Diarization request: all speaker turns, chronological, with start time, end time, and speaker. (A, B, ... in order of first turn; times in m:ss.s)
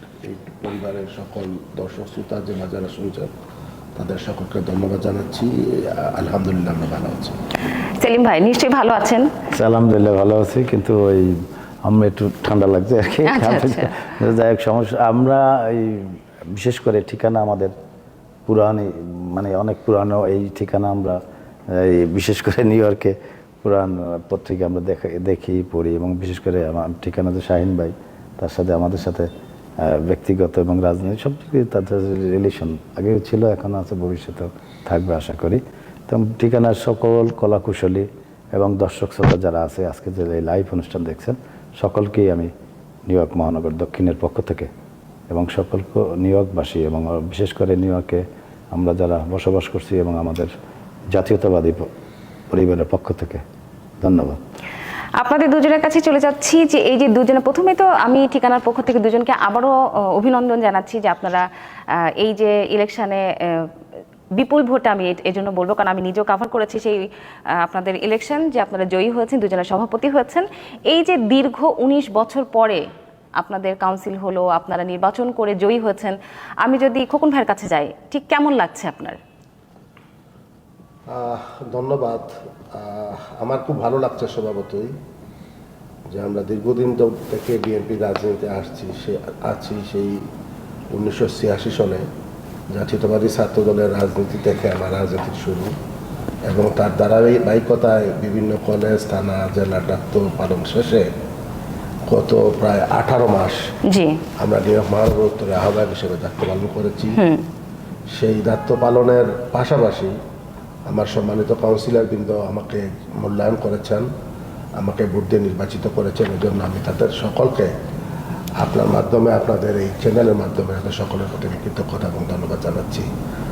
0:00.2-0:03.3 A
0:04.0-0:07.4 A
0:08.0-0:09.3 B
0:09.5-0:17.7 C
0:13.2-0:14.0 B
0:18.5-0:42.5 C
0:43.1-0:44.7 C
0:45.3-0:50.5 C
0:51.1-0:51.9 C
0:52.5-0:53.4 C
0:54.0-0:54.4 C
0:55.2-1:03.7 B
1:04.3-1:12.8 B
1:13.4-1:19.2 B
1:21.1-1:24.9 A
1:26.1-1:30.2 A
1:30.9-1:32.0 A
1:32.7-1:35.7 A
1:36.4-1:41.1 A
1:42.1-1:43.6 A
1:43.9-1:44.2 B
1:44.4-1:47.2 A
1:47.2-1:47.5 B
1:48.1-1:50.1 A
1:50.9-1:54.1 A
1:54.8-1:57.7 A
1:58.6-2:03.1 A